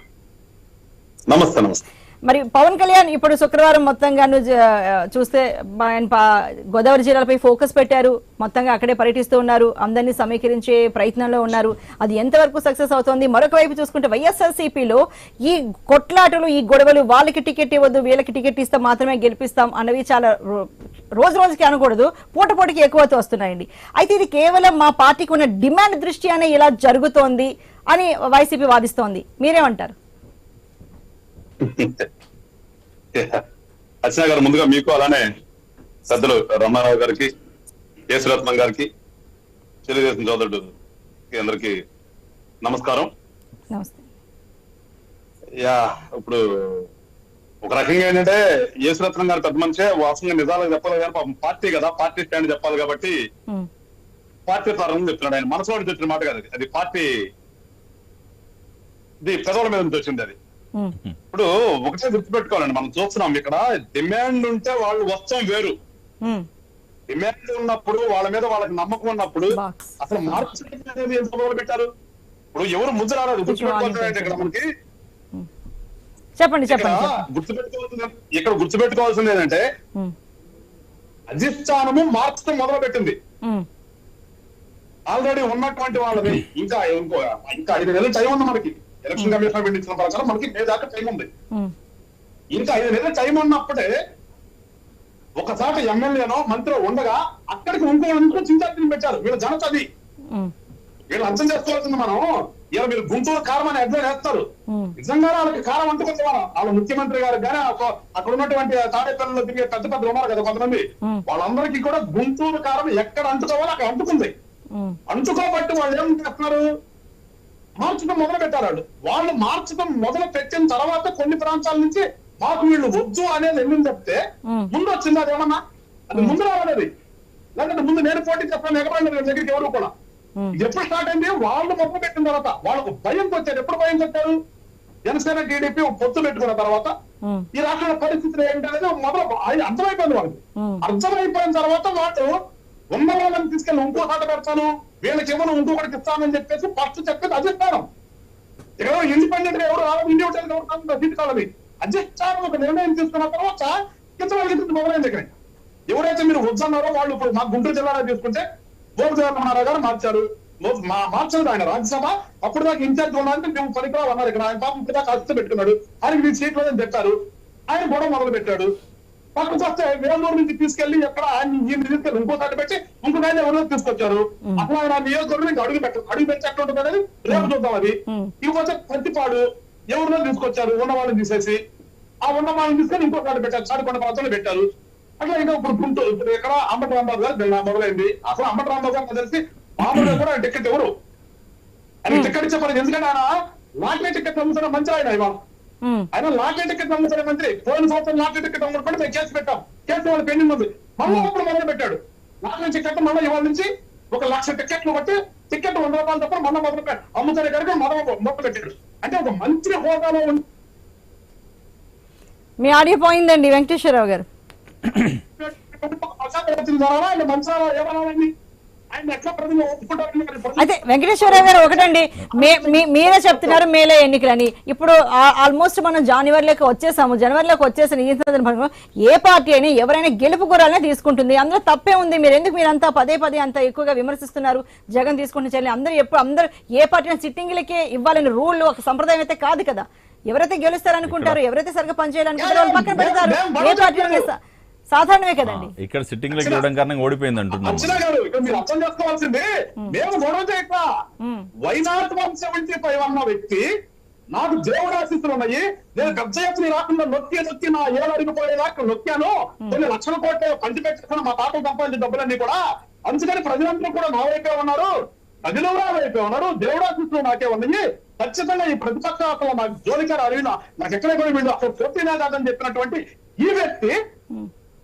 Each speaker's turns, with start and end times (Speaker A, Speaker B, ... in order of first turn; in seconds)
Speaker A: 1.3-1.8, 31.7-32.0, 34.1-35.2, 36.1-37.3, 38.1-38.9, 39.9-40.7, 41.3-41.7, 42.6-43.1, 45.6-46.4, 47.7-53.1, 54.5-57.1, 59.2-60.4, 61.3-65.7, 67.1-71.9, 72.5-74.6, 76.7-79.6, 81.3-83.2, 85.1-91.3, 92.5-93.9, 95.4-99.8, 101.1-104.4, 105.0-114.3, 115.1-116.6, 117.8-124.2, 124.7-125.6, 126.1-126.9, 127.6-129.9, 130.6-134.3, 135.1-136.9, 137.5-142.3, 142.9-147.8, 148.8-155.3, 155.9-158.4, 159.0-167.1, 167.7-168.7, 169.4-181.6, 182.2-184.6, 185.2-190.9, 192.1-193.3, 193.8-195.4, 196.1-210.4, 215.4-218.3, 218.9-223.6, 242.4-244.3, 246.3-246.6, 247.6-250.8, 251.6-253.6, 254.3-264.9, 265.5-273.9
Speaker B: 2.3-20.7, 21.2-30.0, 43.7-44.0, 69.5-70.5, 73.5-74.4, 76.4-77.1, 192.1-192.3, 212.6-214.3, 220.6-244.3, 244.9-245.7
Speaker C: 241.1-241.4, 245.4-248.0